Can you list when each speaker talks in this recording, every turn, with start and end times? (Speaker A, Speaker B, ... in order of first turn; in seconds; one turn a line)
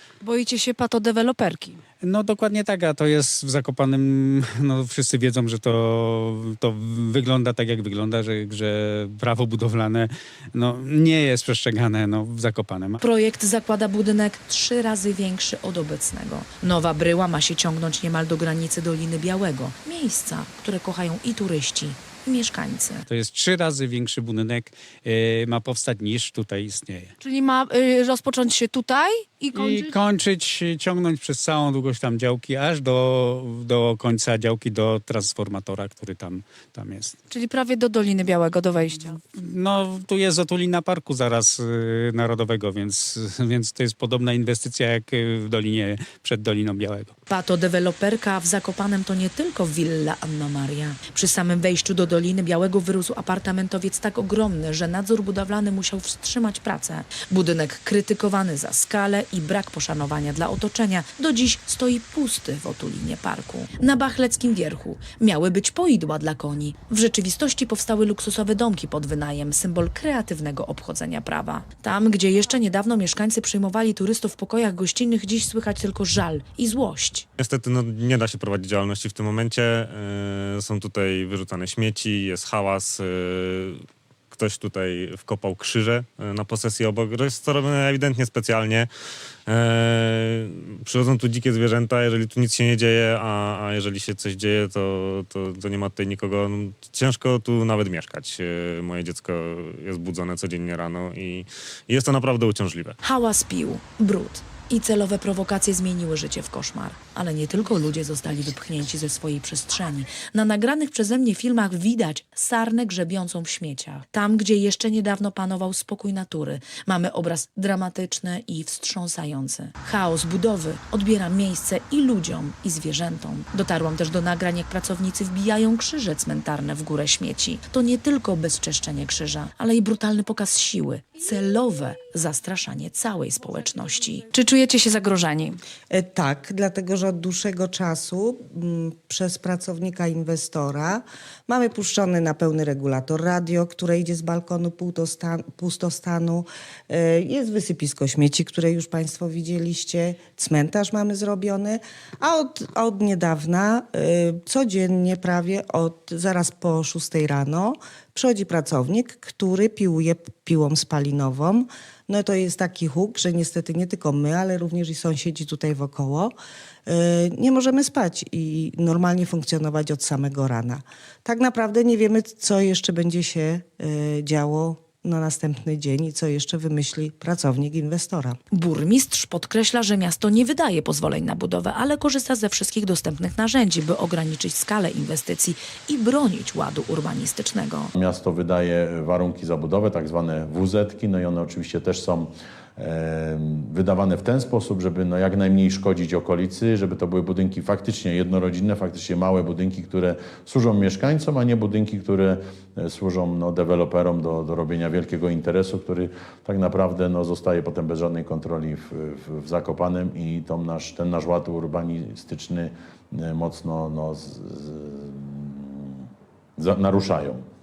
Speaker A: 0.2-1.8
Speaker B: 2.0-13.0
Speaker C: 13.0-23.1
Speaker B: 23.1-27.1
Speaker A: 27.2-29.9
Speaker B: 29.5-37.2
Speaker A: 37.3-39.2
Speaker B: 39.3-47.1
Speaker C: 47.3-77.3
Speaker D: 77.4-83.8
Speaker D: 84.3-88.9
Speaker D: 89.5-103.0
Speaker C: 103.0-134.3
Speaker A: 134.3-135.6
Speaker E: 135.9-166.3
Speaker E: 166.9-178.4
Speaker C: 178.5-187.9
Speaker F: 187.9-217.4